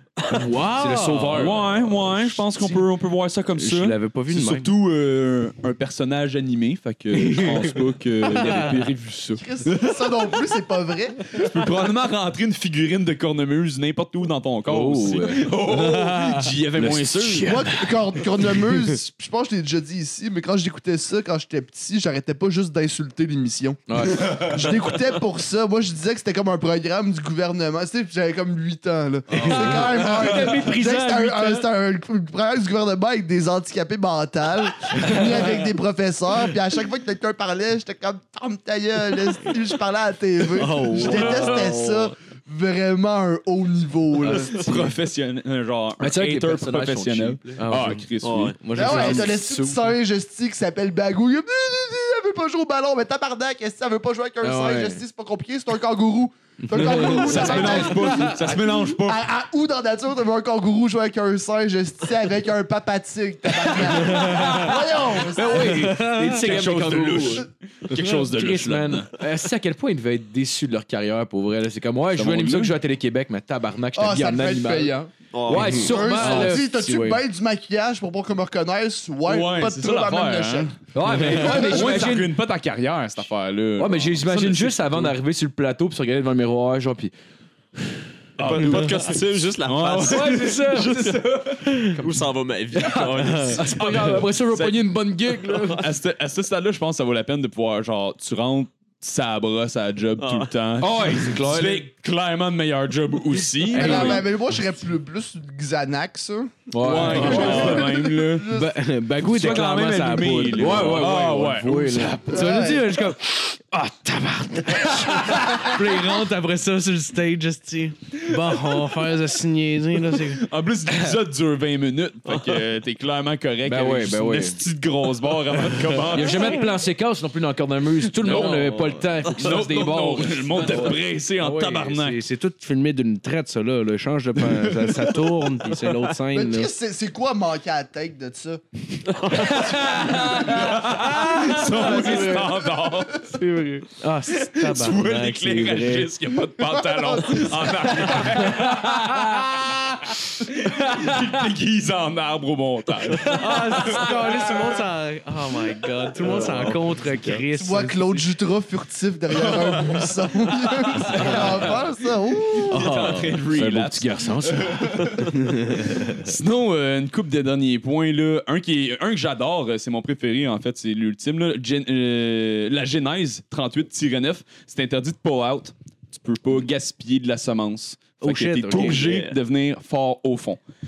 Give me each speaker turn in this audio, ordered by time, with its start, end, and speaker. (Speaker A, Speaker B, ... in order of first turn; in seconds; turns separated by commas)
Speaker A: 0.3-2.8, Speaker B: 0.3-1.8, Speaker C: 1.3-10.3, Speaker A: 3.5-4.7, Speaker A: 7.1-8.8, Speaker D: 9.4-11.3, Speaker C: 11.3-17.7, Speaker B: 14.7-17.7, Speaker D: 17.4-44.8, Speaker B: 23.9-24.4, Speaker B: 29.3-31.6, Speaker E: 40.6-42.1, Speaker A: 40.6-41.7, Speaker C: 41.0-41.7, Speaker C: 44.2-48.6, Speaker E: 44.3-44.9, Speaker B: 46.0-48.1, Speaker A: 47.6-48.1, Speaker E: 48.2-48.6, Speaker A: 48.6-49.4, Speaker B: 48.7-49.8, Speaker D: 48.8-65.9, Speaker B: 54.4-55.0, Speaker A: 56.6-57.7, Speaker C: 57.0-59.2, Speaker B: 57.2-57.9, Speaker A: 64.0-64.7, Speaker B: 65.2-67.5, Speaker A: 65.6-66.5, Speaker C: 65.9-69.1, Speaker B: 68.3-77.0, Speaker C: 72.2-72.8, Speaker D: 73.9-80.7, Speaker E: 75.3-76.0, Speaker A: 75.8-77.2, Speaker C: 79.2-85.2, Speaker B: 80.9-82.3, Speaker A: 81.4-81.7, Speaker B: 83.8-87.1, Speaker C: 88.4-92.0, Speaker E: 88.4-91.2, Speaker B: 90.0-91.2, Speaker E: 91.9-93.7, Speaker B: 92.8-95.8, Speaker C: 93.6-104.3, Speaker E: 100.2-100.5, Speaker B: 100.8-101.9, Speaker D: 103.7-108.8, Speaker B: 103.9-104.2, Speaker B: 106.7-107.9, Speaker C: 106.8-108.5, Speaker A: 107.0-107.8, Speaker A: 108.5-120.5, Speaker C: 109.2-112.2, Speaker B: 110.5-112.7, Speaker D: 112.3-113.0, Speaker C: 118.3-118.9, Speaker C: 120.1-126.7, Speaker E: 122.3-122.5, Speaker B: 123.7-124.6, Speaker B: 126.1-131.0, Speaker C: 128.2-132.2, Speaker A: 128.3-129.0, Speaker A: 131.4-136.7, Speaker C: 134.5-135.8, Speaker D: 136.3-138.6, Speaker E: 139.1-139.9, Speaker C: 139.4-143.3, Speaker D: 140.1-140.7, Speaker A: 141.3-142.5, Speaker D: 142.3-142.9, Speaker A: 143.2-146.1, Speaker C: 144.3-154.8, Speaker D: 146.6-148.4, Speaker A: 153.2-158.3, Speaker C: 156.2-157.4, Speaker D: 157.5-162.7, Speaker C: 159.6-159.8, Speaker C: 160.9-161.9, Speaker A: 161.0-161.5, Speaker C: 162.5-180.6, Speaker A: 162.7-163.5, Speaker B: 163.5-165.0, Speaker A: 164.7-166.3, Speaker A: 178.2-179.1, Speaker E: 178.8-179.4